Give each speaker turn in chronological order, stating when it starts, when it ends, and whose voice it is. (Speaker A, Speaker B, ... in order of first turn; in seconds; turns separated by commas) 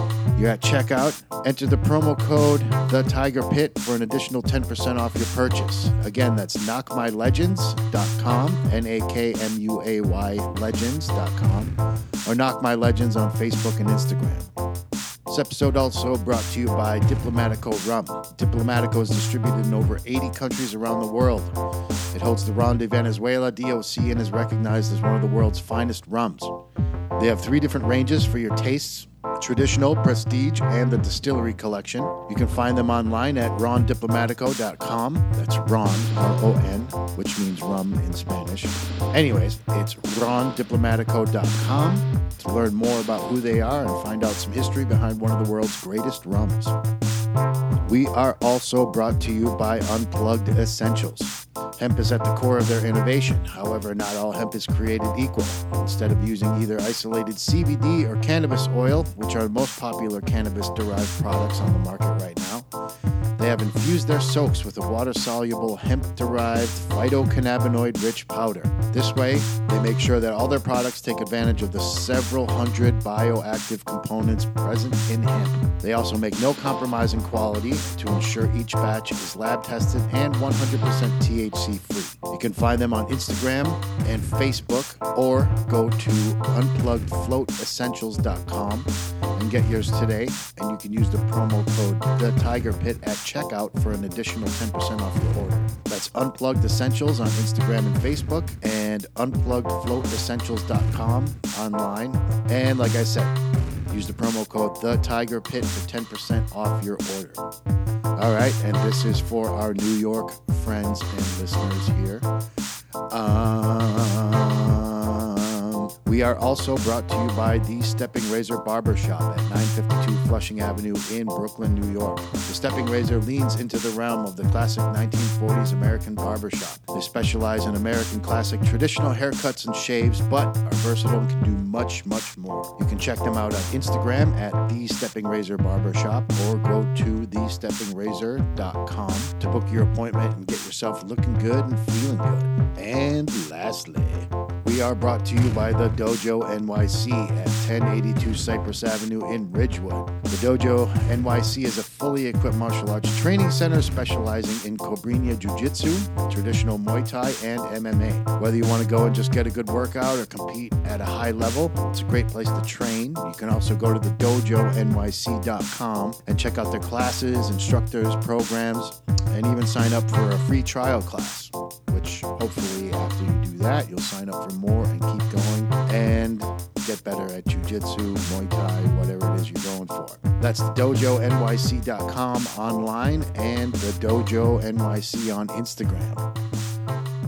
Speaker A: 0.4-11.8, Speaker A: 12.3-14.5, Speaker A: 15.3-21.5, Speaker A: 22.1-26.5, Speaker A: 27.2-46.8, Speaker A: 47.9-62.7, Speaker A: 63.4-103.3, Speaker A: 103.9-107.4, Speaker A: 108.2-112.3, Speaker A: 113.1-186.3